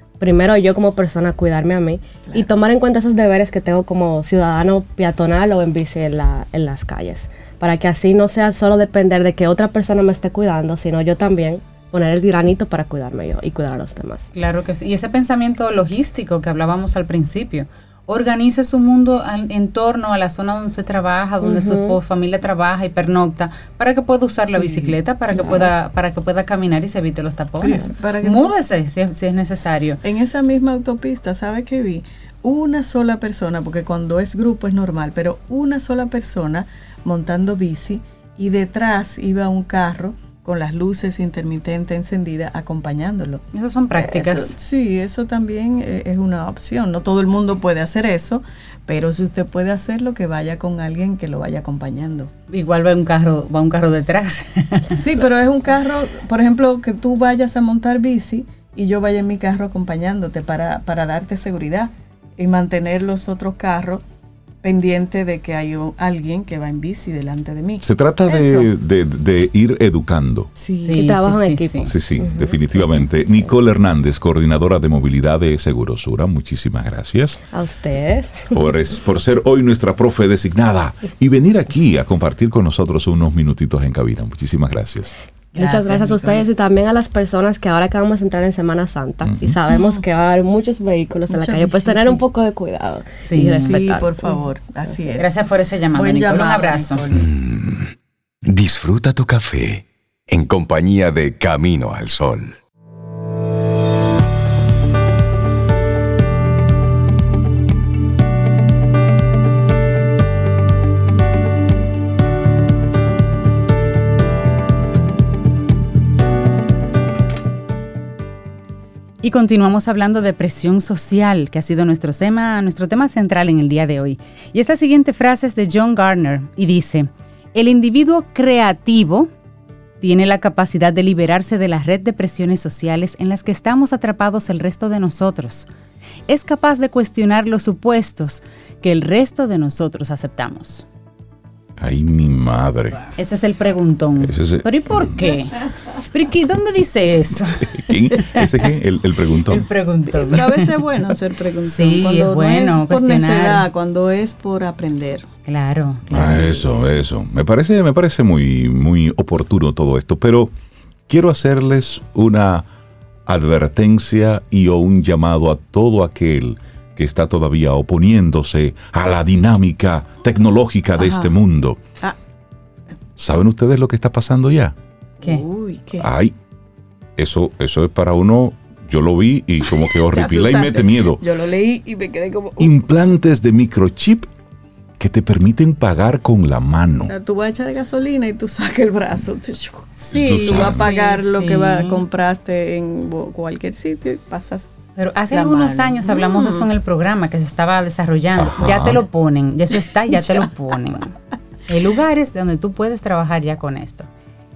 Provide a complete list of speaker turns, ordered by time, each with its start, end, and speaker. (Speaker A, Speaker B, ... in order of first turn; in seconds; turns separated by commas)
Speaker A: 0.2-14.3, Speaker B: 14.3-30.0, Speaker A: 21.4-22.0, Speaker C: 24.5-25.7, Speaker A: 25.4-25.7, Speaker C: 27.6-28.5, Speaker C: 30.0-52.3, Speaker B: 43.5-44.6, Speaker B: 52.5-55.0, Speaker C: 54.9-64.0, Speaker C: 64.6-68.7, Speaker D: 67.8-70.5, Speaker C: 70.6-71.2, Speaker B: 70.8-71.9, Speaker A: 70.9-73.5, Speaker D: 71.8-77.4, Speaker A: 77.5-78.6, Speaker D: 78.5-85.1, Speaker A: 85.5-95.1, Speaker C: 85.5-86.5, Speaker D: 89.2-89.6, Speaker C: 89.7-90.0, Speaker C: 91.3-92.2, Speaker B: 93.2-93.7, Speaker C: 93.6-97.3, Speaker B: 95.2-97.0, Speaker E: 97.1-97.9, Speaker E: 98.5-102.6, Speaker B: 119.2-129.3, Speaker B: 130.0-135.7, Speaker B: 136.3-140.8, Speaker D: 141.8-143.0, Speaker B: 143.2-148.5, Speaker D: 144.2-145.3, Speaker D: 147.7-149.7, Speaker B: 149.5-150.8, Speaker C: 150.1-155.3, Speaker B: 151.7-153.7, Speaker B: 155.5-156.6, Speaker D: 156.1-160.5, Speaker D: 161.1-162.7, Speaker D: 163.3-171.8, Speaker C: 171.0-171.4, Speaker D: 173.2-174.8, Speaker C: 175.2-176.1, Speaker D: 176.0-176.3, Speaker D: 177.2-181.2, Speaker C: 179.9-183.1, Speaker D: 182.6-184.3, Speaker D: 185.0-187.2, Speaker C: 187.1-194.8, Speaker B: 190.0-192.0, Speaker D: 190.1-190.9, Speaker B: 195.0-201.2, Speaker C: 195.3-196.7, Speaker D: 198.3-199.0, Speaker C: 200.1-200.4, Speaker B: 201.7-204.1